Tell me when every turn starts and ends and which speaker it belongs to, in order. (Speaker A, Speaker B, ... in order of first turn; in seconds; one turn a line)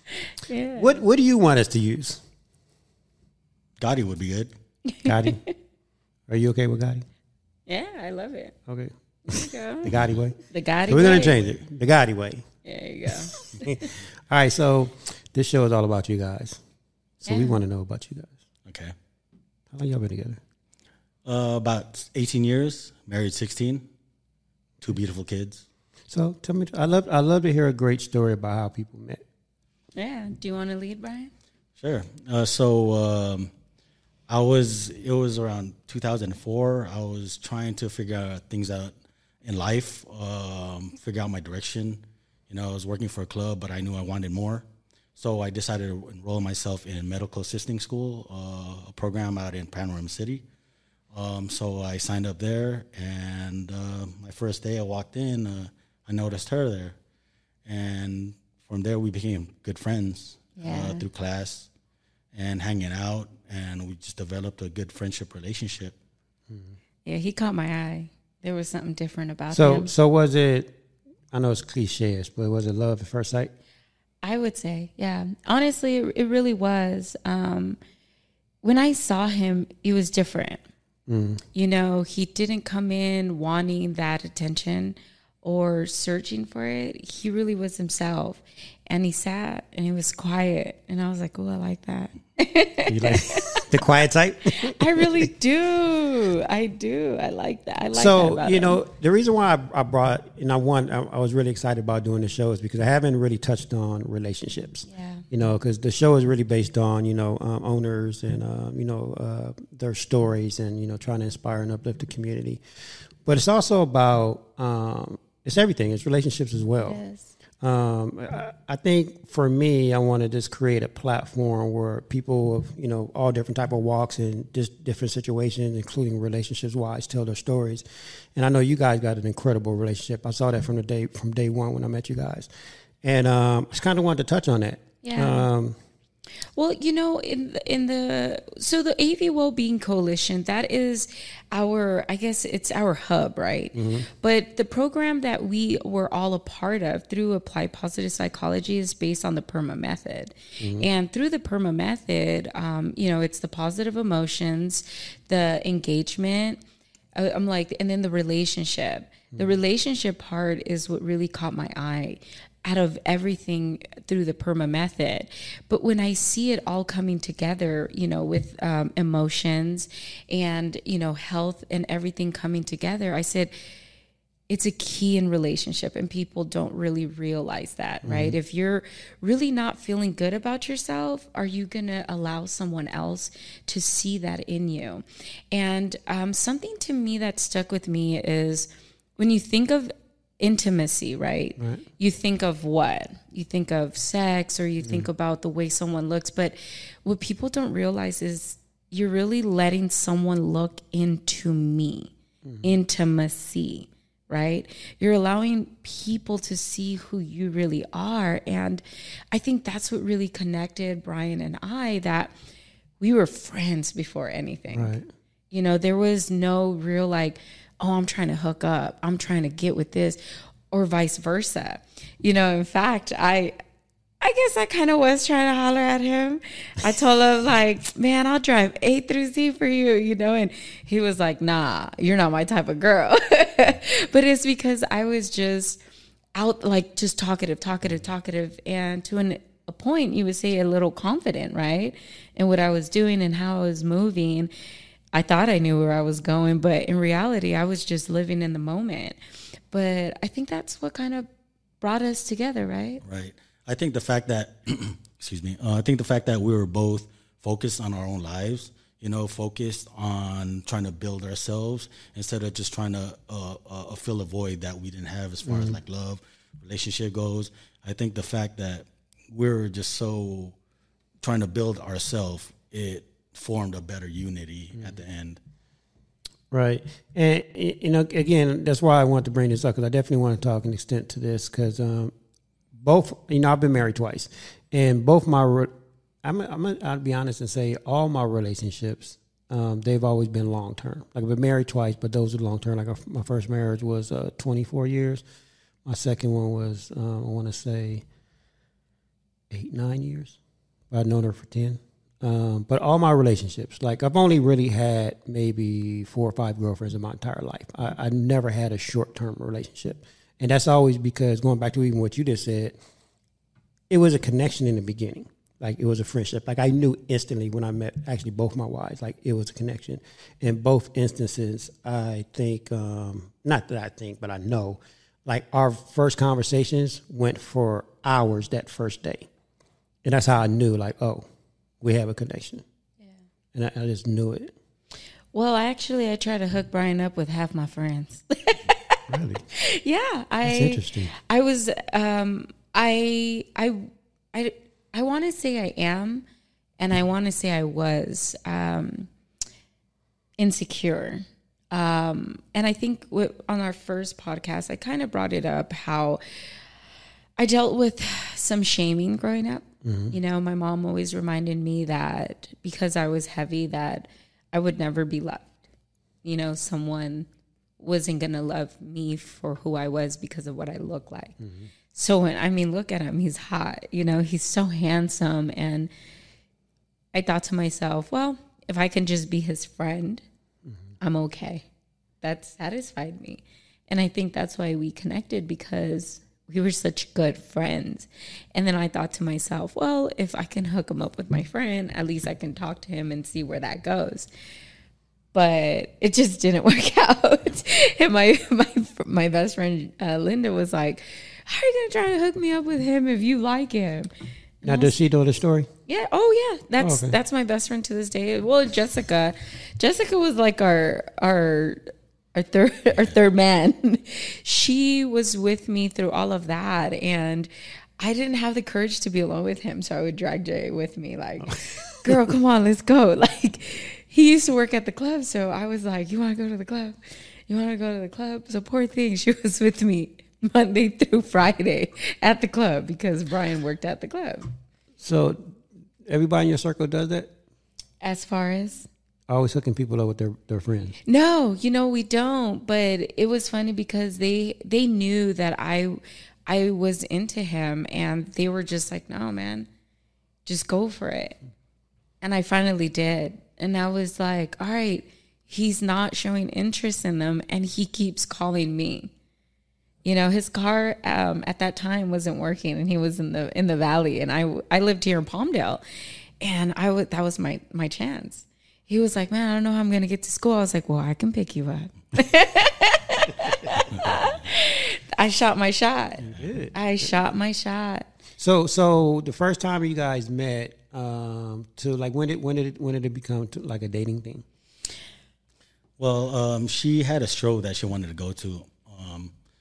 Speaker A: 0.3-1.0
Speaker B: 0.8-2.2
Speaker C: 3.8-4.5
Speaker A: 4.9-5.5
Speaker B: 5.0-5.4
Speaker B: 6.3-7.0
Speaker A: 7.7-8.5
Speaker B: 8.7-12.5
Speaker A: 9.3-9.9
Speaker A: 10.5-11.4
Speaker A: 12.6-13.9
Speaker B: 13.0-16.6
Speaker B: 17.2-18.4
Speaker A: 17.3-17.6
Speaker C: 18.7-18.9
Speaker B: 19.7-20.4
Speaker C: 21.2-23.9
Speaker C: 24.8-25.6
Speaker B: 26.1-29.2
Speaker A: 29.9-31.3
Speaker C: 31.8-33.5
Speaker C: 34.3-50.4
Speaker C: 51.1-57.0
Speaker C: 57.6-61.7
Speaker A: 60.6-61.0
Speaker C: 62.3-65.9
Speaker B: 66.5-66.7
Speaker A: 67.0-69.9
Speaker B: 69.5-70.7
Speaker B: 71.3-73.5
Speaker A: 74.2-77.8
Speaker A: 78.6-80.6
Speaker B: 81.1-81.4
Speaker A: 81.5-93.6
Speaker B: 92.9-95.3
Speaker A: 94.5-98.8
Speaker B: 97.9-112.6
Speaker A: 104.9-105.2
Speaker B: 113.2-117.0
Speaker A: 116.8-117.3
Speaker B: 117.6-132.5
Speaker B: 133.0-135.8
Speaker A: 135.0-135.5
Speaker A: 136.5-156.6
Speaker B: 143.7-144.1
Speaker B: 150.6-150.9
Speaker A: 157.1-173.5
Speaker A: 174.5-212.3
Speaker B: 178.0-178.4
Speaker B: 191.6-191.8
Speaker B: 194.8-195.1
Speaker B: 202.4-202.7
Speaker A: 213.0-214.9
Speaker B: 214.7-215.1
Speaker A: 215.5-220.2
Speaker A: 220.7-223.6
Speaker A: 224.2-235.8
Speaker A: 236.3-244.5
Speaker A: 245.1-249.2
Speaker A: 249.7-251.3
Speaker A: 251.8-253.0
Speaker C: 253.0-270.5
Speaker B: 265.4-265.8
Speaker C: 271.2-275.4
Speaker B: 276.5-282.1
Speaker B: 282.8-295.2
Speaker B: 295.8-298.0
Speaker B: 299.5-300.4
Speaker B: 300.9-312.8
Speaker B: 313.9-329.3
Speaker B: 330.0-331.2
Speaker B: 331.8-332.6
Speaker B: 333.5-334.5
Speaker A: 335.3-339.0
Speaker B: 339.1-339.4
Speaker A: 339.5-346.2
Speaker B: 340.4-341.1
Speaker A: 346.8-349.1
Speaker A: 350.4-356.2
Speaker A: 357.4-365.6
Speaker B: 359.8-360.2
Speaker A: 366.2-367.3
Speaker A: 367.8-371.4
Speaker B: 371.4-371.7
Speaker A: 371.9-375.9
Speaker A: 377.1-380.2
Speaker A: 381.0-381.6
Speaker A: 382.2-394.3
Speaker A: 395.3-404.1
Speaker A: 404.6-404.9
Speaker B: 404.6-405.7
Speaker A: 405.9-434.5
Speaker B: 406.8-407.1
Speaker B: 421.4-422.3
Speaker B: 435.0-437.3
Speaker A: 438.0-438.9
Speaker B: 439.3-440.9
Speaker A: 441.1-449.7
Speaker A: 450.4-451.4
Speaker A: 452.2-459.1
Speaker A: 460.0-465.8
Speaker A: 466.4-478.1
Speaker B: 476.2-477.1
Speaker B: 478.4-484.4
Speaker C: 486.0-489.3